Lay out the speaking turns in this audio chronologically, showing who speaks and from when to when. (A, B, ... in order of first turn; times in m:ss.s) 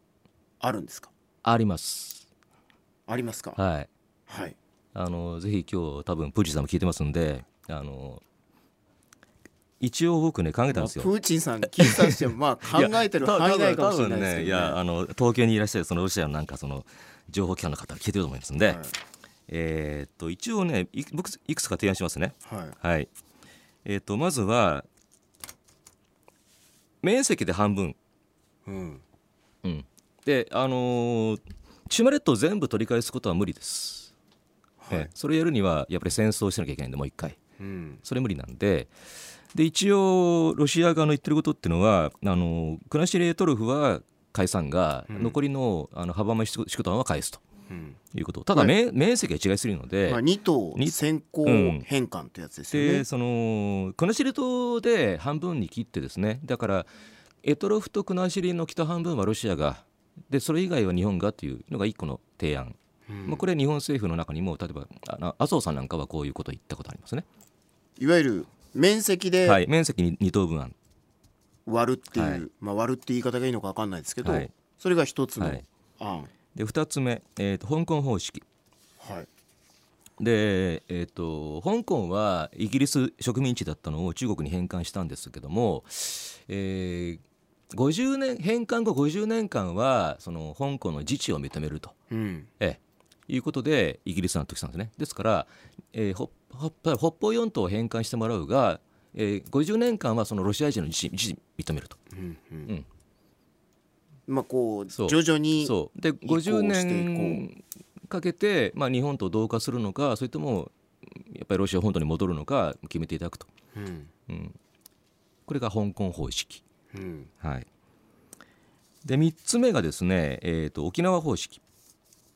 0:00.6-0:01.1 A
0:01.4-0:02.2 B
0:03.1-0:03.6 A
0:03.6-0:03.9 B
0:04.3-0:04.6 A
0:04.9-0:08.2 B
0:09.8-0:11.1 B
0:10.7-0:14.8 A
0:11.8-0:12.2 B
0:12.7-0:18.8 B
0:18.6-0:18.9 A
0:19.5-0:23.1 B
0:22.4-0:22.7 A
0:23.8-0:24.9 B
0:27.0-0:28.0 B
0:28.6-0:29.0 A
0:29.6-0:34.1 B
0:34.8-0:35.1 A
0:34.9-0:37.4 B
0:37.6-0:38.0 A
0:38.0-0:38.9 B
0:39.5-0:47.4 B
0:45.1-0:45.3 A
0:47.7-0:48.0 A
0:48.1-0:50.2 B
0:50.0-0:53.0 A
0:50.8-0:51.8 B
0:52.7-0:56.9 B
0:57.4-1:07.2 B
1:03.1-1:03.4 A
1:08.0-1:09.6 A
1:09.4-1:10.7 B
1:11.6-1:16.3 A
1:12.1-1:12.4 B
1:14.2-1:14.5 B
1:16.5-1:18.4 B
1:19.0-1:19.3 A
1:20.2-1:31.9 B
1:32.1-1:32.5 A
1:32.6-1:42.0 B
1:42.1-1:42.7 A
1:44.3-1:47.4 A
1:44.9-1:53.5 B
1:53.7-1:54.1 A
1:54.3-1:54.6 B
1:55.5-1:56.6 B
1:56.9-1:57.3 A
1:57.4-1:57.7 B
1:59.0-2:01.6 B